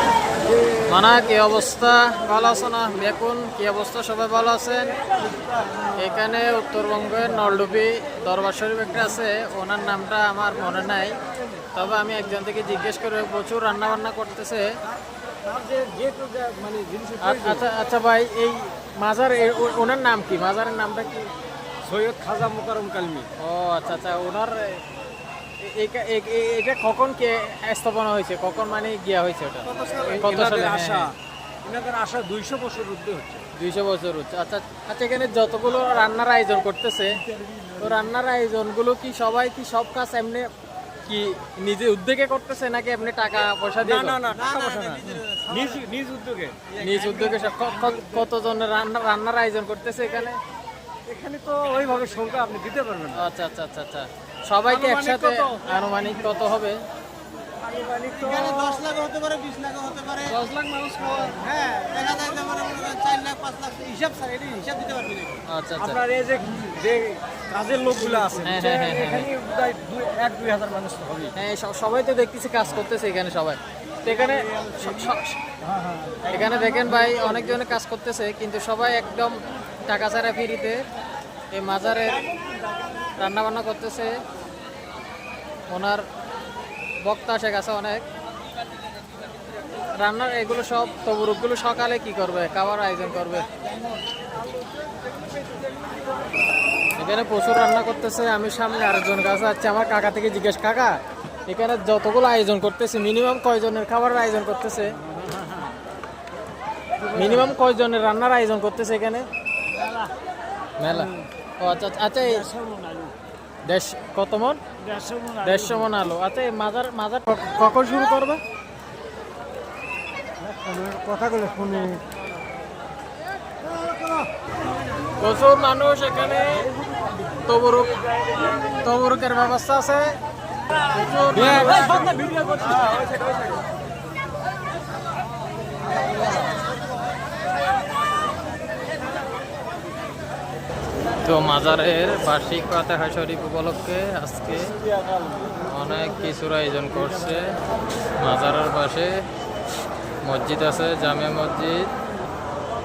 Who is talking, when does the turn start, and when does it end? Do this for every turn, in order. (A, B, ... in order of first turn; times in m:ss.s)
0:00.9-0:04.9 A
0:06.0-0:11.1 A
0:11.7-0:14.7 A
0:15.4-0:17.7 B
0:17.2-0:21.3 A
0:21.8-0:23.3 B
0:23.4-0:24.8 A
0:25.6-0:31.1 A
0:29.6-0:33.4 B
0:33.6-0:37.2 A
0:37.8-0:40.5 A
0:41.0-0:44.2 A
0:43.8-0:46.7 B
0:44.3-0:45.7 C
0:46.8-0:47.4 C
0:46.8-0:50.4 A
0:51.1-0:53.3 B
0:53.1-0:56.8 A
0:54.7-0:55.8 B
0:57.6-0:58.9 B
0:58.3-1:00.4 C
1:00.3-1:02.1 B
1:01.7-1:03.9 C
1:03.8-1:04.8 B
1:04.6-1:05.4 C
1:05.5-1:06.0 A
1:05.8-1:11.3 B
1:08.4-1:09.3 A
1:11.3-1:15.4 A
1:14.2-1:14.8 B
1:15.7-1:16.4 B
1:16.3-1:20.8 A
1:21.5-1:22.2 A
1:23.2-1:24.1 A
1:25.7-1:26.0 A
1:27.0-1:28.0 A
1:30.0-1:33.5 A
1:37.0-1:45.0 A
1:45.2-1:45.6 B
1:47.1-1:49.3 A
1:50.8-1:52.5 A
1:52.5-1:53.1 B
1:53.7-1:54.6 A
1:54.9-1:55.4 B
1:55.4-1:58.4 A
2:00.6-2:02.0 B
2:05.2-2:06.7 A
2:07.4-2:08.0 A
2:08.7-2:10.2 A
2:10.9-2:12.2 A
2:11.4-2:13.4 B
2:21.2-2:24.7 A
2:25.6-2:27.5 A
2:28.2-2:29.2 A
2:30.2-2:31.9 A